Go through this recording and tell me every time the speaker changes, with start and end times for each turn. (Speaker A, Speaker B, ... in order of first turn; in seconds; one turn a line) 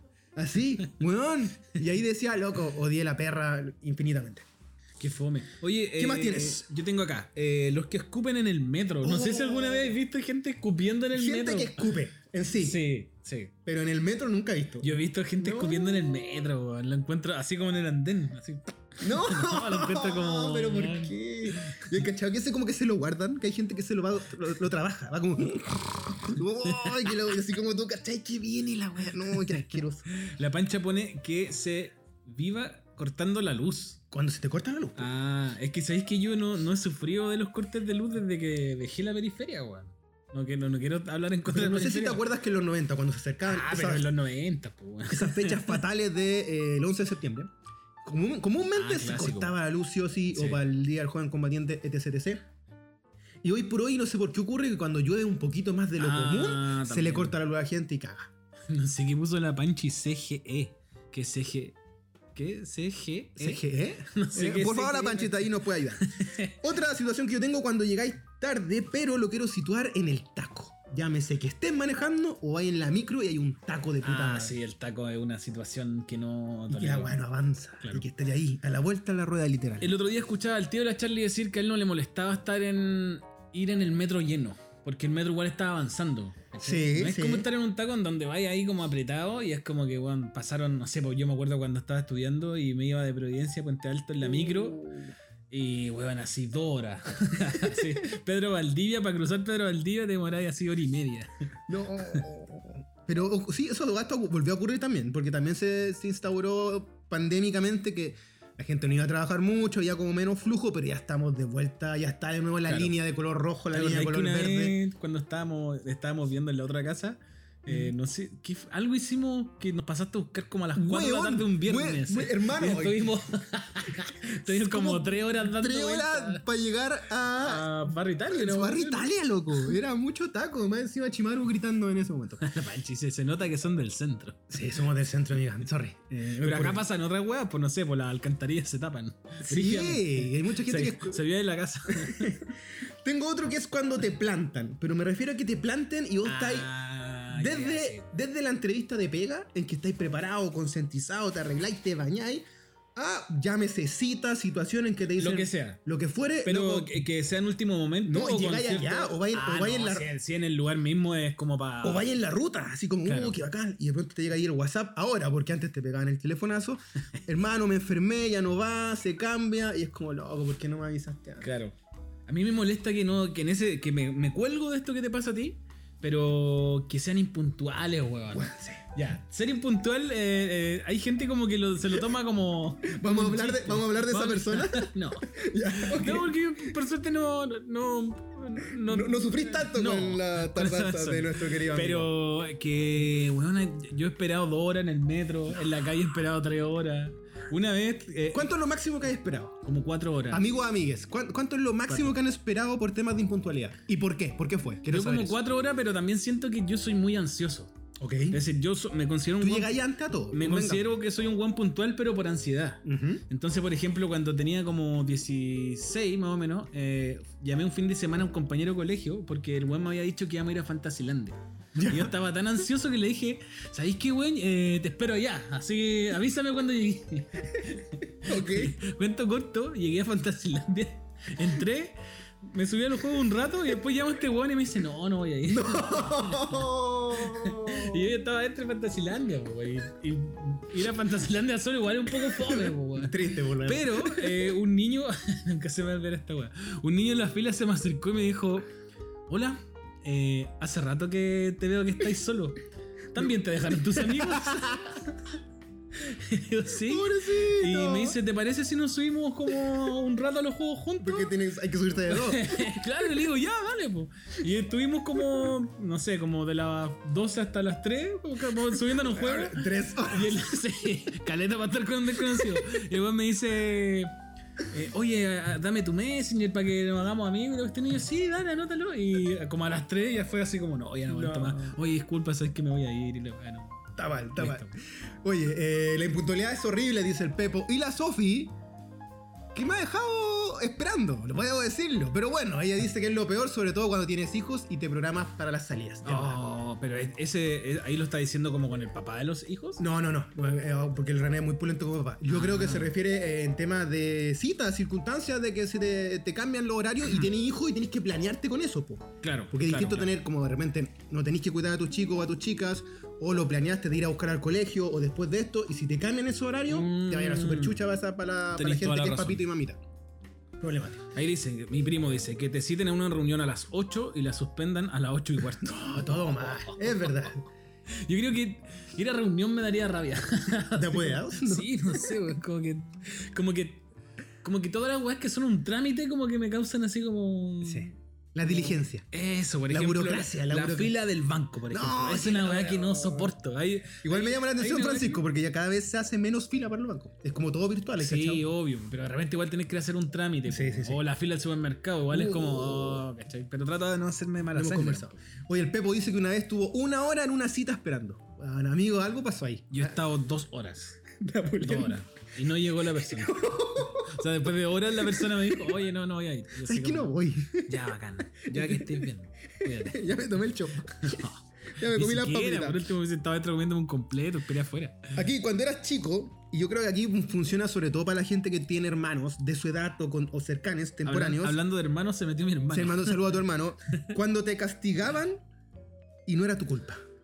Speaker A: 0.4-4.5
Speaker B: 5.0-11.9
Speaker A: 6.0-6.7
Speaker A: 9.0-10.0
Speaker A: 11.1-12.8
Speaker B: 12.6-13.5
Speaker A: 13.7-16.1
Speaker B: 14.8-22.0
Speaker A: 19.0-30.1
Speaker B: 26.6-27.0
Speaker B: 30.1-34.0
Speaker A: 34.1-35.1
Speaker B: 35.0-42.2
Speaker A: 41.5-44.1
Speaker B: 43.5-45.8
Speaker A: 45.1-47.5
Speaker A: 48.0-52.5
Speaker B: 48.8-49.5
Speaker B: 50.3-50.6
Speaker A: 53.4-58.3
Speaker B: 56.0-57.4
Speaker B: 58.7-61.8
Speaker B: 62.4-65.5
Speaker A: 63.4-66.1
Speaker B: 66.0-66.5
Speaker A: 66.6-74.5
Speaker B: 74.0-77.1
Speaker A: 76.7-79.9
Speaker B: 79.8-94.8
Speaker A: 86.6-87.5
Speaker A: 94.2-95.2
Speaker B: 95.5-101.3
Speaker A: 97.6-97.9
Speaker A: 101.7-114.8
Speaker B: 112.7-113.0
Speaker B: 113.7-126.4
Speaker A: 117.7-117.9
Speaker A: 120.8-123.1
Speaker A: 124.5-127.7
Speaker B: 127.4-129.1
Speaker A: 128.3-132.5
Speaker B: 132.4-134.5
Speaker A: 134.5-136.8
Speaker B: 136.3-142.4
Speaker A: 139.4-141.2
Speaker A: 141.9-146.7
Speaker B: 146.2-148.1
Speaker A: 147.3-152.4
Speaker A: 153.0-156.9
Speaker B: 155.2-155.8
Speaker B: 156.4-162.1
Speaker A: 158.1-160.1
Speaker A: 161.8-171.5
Speaker B: 163.1-163.4
Speaker B: 171.4-171.8
Speaker B: 172.3-198.5
Speaker A: 178.3-178.8
Speaker A: 182.8-186.3
Speaker A: 188.8-192.1
Speaker A: 198.3-199.6
Speaker B: 199.6-200.4
Speaker A: 200.3-205.4
Speaker B: 201.9-202.2
Speaker B: 204.9-207.7
Speaker A: 208.0-208.4
Speaker B: 208.3-209.8
Speaker A: 209.4-210.8
Speaker B: 210.3-236.7
Speaker A: 212.8-213.2
Speaker A: 221.8-222.1
Speaker A: 228.3-228.8
Speaker A: 235.5-238.1
Speaker B: 237.2-248.7
Speaker A: 242.3-244.5
Speaker B: 249.3-252.6
Speaker B: 253.1-255.1
Speaker A: 253.9-255.0
Speaker B: 256.0-261.3
Speaker A: 256.8-258.2
Speaker A: 261.0-262.8
Speaker B: 262.1-274.1
Speaker A: 269.0-270.4
Speaker B: 274.7-284.8
Speaker A: 281.1-281.8
Speaker A: 284.0-284.7
Speaker A: 285.2-288.5
Speaker A: 289.5-296.4
Speaker B: 296.1-299.8
Speaker A: 299.8-319.8
Speaker B: 302.3-302.9
Speaker B: 309.2-310.1
Speaker B: 316.7-317.8
Speaker B: 318.6-319.4
Speaker A: 320.6-321.0
Speaker B: 321.1-327.3
Speaker A: 325.6-327.5
Speaker B: 328.0-333.8
Speaker A: 330.8-332.1
Speaker B: 334.4-345.2
Speaker A: 337.6-339.1
Speaker A: 339.7-340.9
Speaker A: 341.7-343.3
Speaker A: 344.0-348.4
Speaker B: 348.0-355.2
Speaker A: 350.5-351.0
Speaker A: 352.1-353.1
Speaker A: 354.5-360.0
Speaker B: 359.7-361.0
Speaker A: 361.1-362.0
Speaker B: 361.6-363.4
Speaker A: 363.0-364.3
Speaker B: 363.9-367.1
Speaker A: 364.9-365.8
Speaker A: 366.6-367.8
Speaker B: 367.6-370.0
Speaker A: 368.4-369.1
Speaker A: 369.6-372.8
Speaker B: 371.0-375.2
Speaker A: 375.1-381.6
Speaker B: 381.1-383.3
Speaker A: 382.7-385.4
Speaker A: 386.3-387.0